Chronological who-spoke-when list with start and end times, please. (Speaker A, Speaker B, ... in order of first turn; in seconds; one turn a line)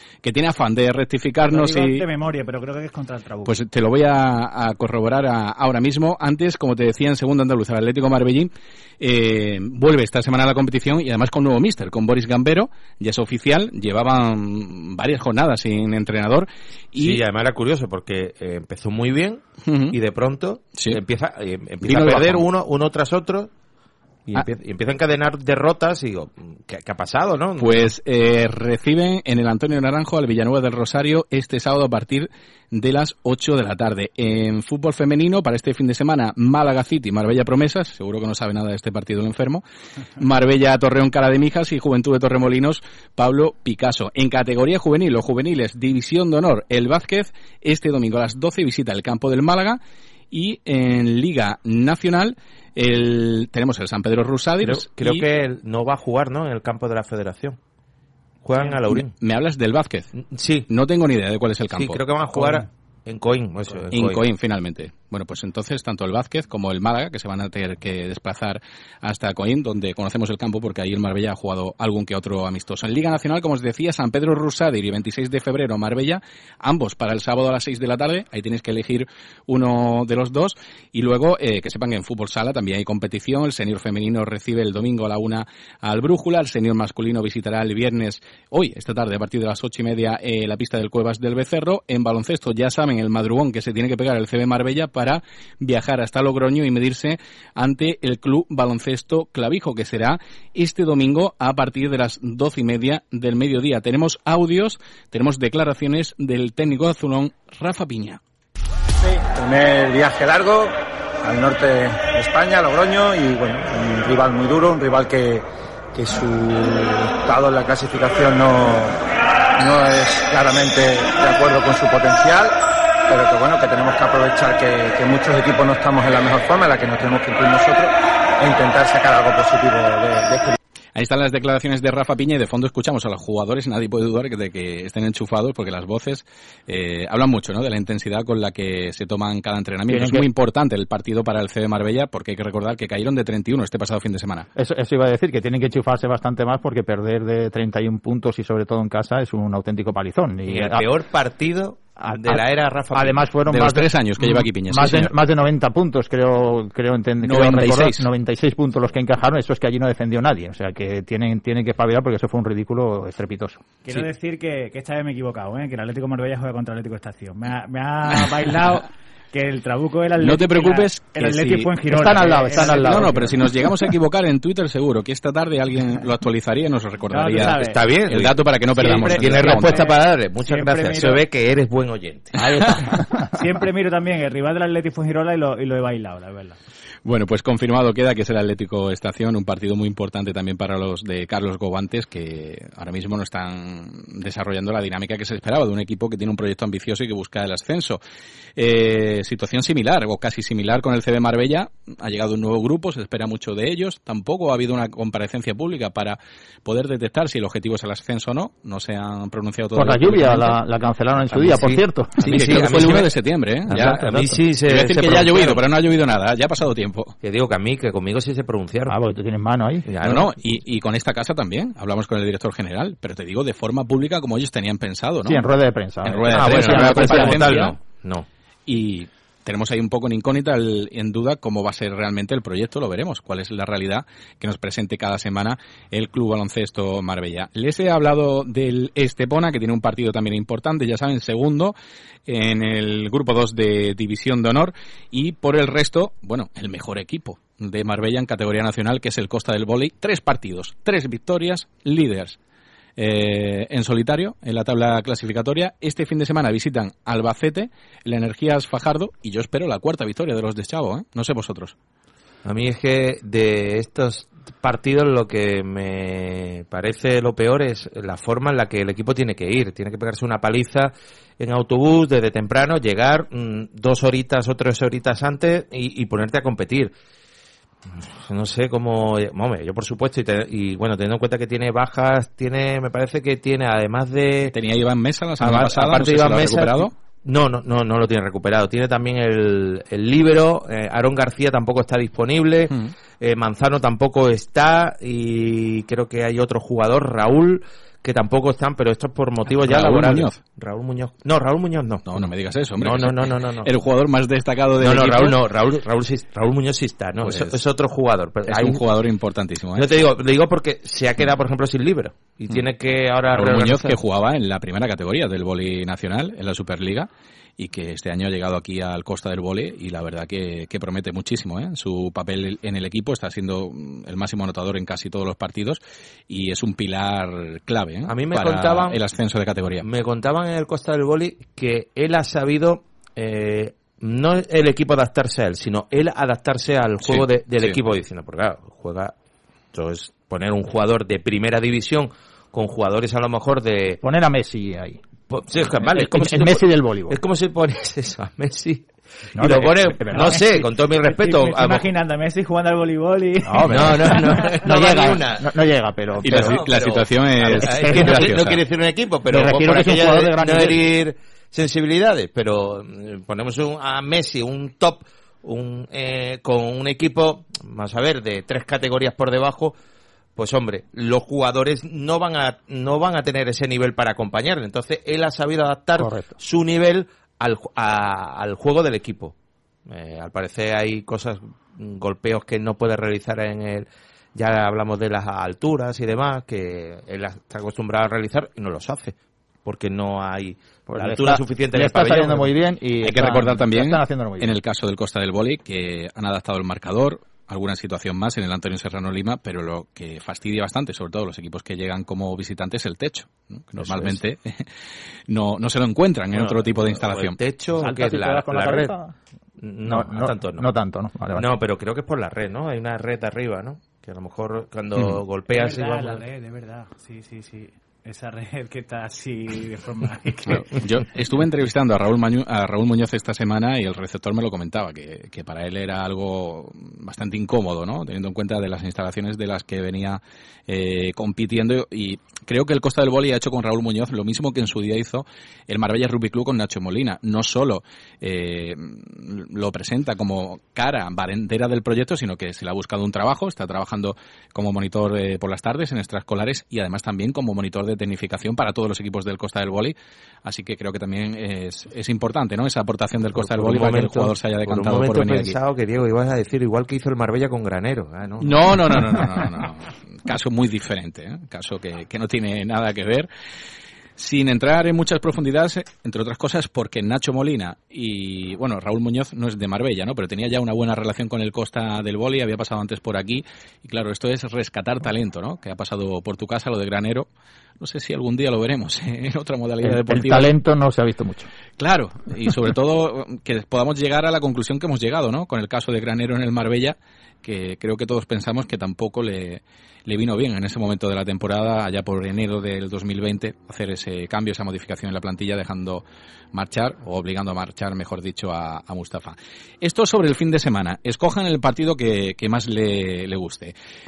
Speaker A: 0.2-2.0
Speaker B: 1.4-3.5
Speaker A: 3.5-17.2
Speaker C: 16.9-23.5
Speaker A: 19.6-19.9
Speaker A: 21.8-22.4
Speaker C: 24.3-27.9
Speaker A: 27.6-39.6
Speaker A: 40.2-49.8
Speaker A: 50.3-55.2
Speaker C: 54.6-57.6
Speaker C: 58.4-59.1
Speaker A: 58.9-60.1
Speaker C: 60.3-60.7
Speaker A: 60.7-62.5
Speaker C: 61.7-64.2
Speaker A: 63.9-108.2
Speaker D: 109.0-119.0
Speaker D: 119.6-122.5
Speaker D: 123.1-130.6
Speaker A: 130.9-144.5
Speaker E: 139.9-140.2
Speaker E: 144.5-150.8
Speaker C: 150.5-153.3
Speaker E: 152.0-163.6
Speaker A: 153.5-155.1
Speaker A: 157.2-158.1
Speaker B: 163.8-173.1
Speaker A: 170.2-171.7
Speaker E: 171.9-173.7
Speaker A: 172.6-179.8
Speaker B: 177.1-177.8
Speaker C: 177.5-182.4
Speaker B: 178.8-181.2
Speaker E: 182.3-183.4
Speaker B: 183.3-186.6
Speaker A: 187.0-198.0
Speaker A: 198.6-210.5
Speaker E: 209.7-212.5
Speaker C: 211.2-213.1
Speaker A: 212.2-214.1
Speaker C: 213.7-215.6
Speaker E: 213.7-214.4
Speaker A: 214.7-217.1
Speaker C: 217.2-218.9
Speaker E: 218.9-219.9
Speaker C: 219.9-220.3
Speaker A: 220.0-225.4
Speaker E: 225.2-227.7
Speaker A: 226.0-227.7
Speaker C: 226.3-228.3
Speaker A: 228.7-241.7
Speaker A: 242.3-252.4
Speaker A: 253.0-261.7
Speaker C: 262.4-276.9
Speaker C: 277.9-284.5
Speaker A: 284.5-286.9
Speaker C: 285.4-302.3
Speaker A: 299.6-300.4
Speaker A: 302.1-305.4
Speaker C: 302.8-303.7
Speaker C: 304.8-308.8
Speaker A: 307.2-307.6
Speaker A: 308.5-309.9
Speaker C: 309.8-314.0
Speaker A: 313.3-329.9
Speaker C: 328.1-329.0
Speaker C: 329.8-339.1
Speaker A: 337.0-337.8
Speaker C: 339.7-344.0
Speaker E: 344.0-345.0
Speaker C: 345.3-351.8
Speaker E: 345.9-347.2
Speaker E: 349.3-350.5
Speaker B: 350.1-350.5
Speaker B: 351.0-354.7
Speaker E: 353.4-356.6
Speaker C: 353.6-355.5
Speaker A: 356.2-358.6
Speaker C: 356.2-369.8
Speaker E: 357.6-358.4
Speaker E: 359.3-360.8
Speaker C: 370.4-379.3
Speaker E: 376.0-376.3
Speaker C: 379.9-392.5
Speaker E: 390.9-394.6
Speaker A: 393.0-404.7
Speaker E: 403.8-404.1
Speaker A: 405.3-407.4
Speaker C: 406.3-408.9
Speaker E: 407.7-409.1
Speaker C: 409.6-410.6
Speaker E: 409.9-411.5
Speaker C: 411.3-416.2
Speaker B: 415.5-420.8
Speaker A: 420.5-455.6
Speaker C: 453.4-459.2
Speaker A: 458.4-463.3
Speaker A: 464.2-477.3
Speaker A: 477.8-480.5
Speaker E: 479.8-481.5
Speaker A: 481.8-503.7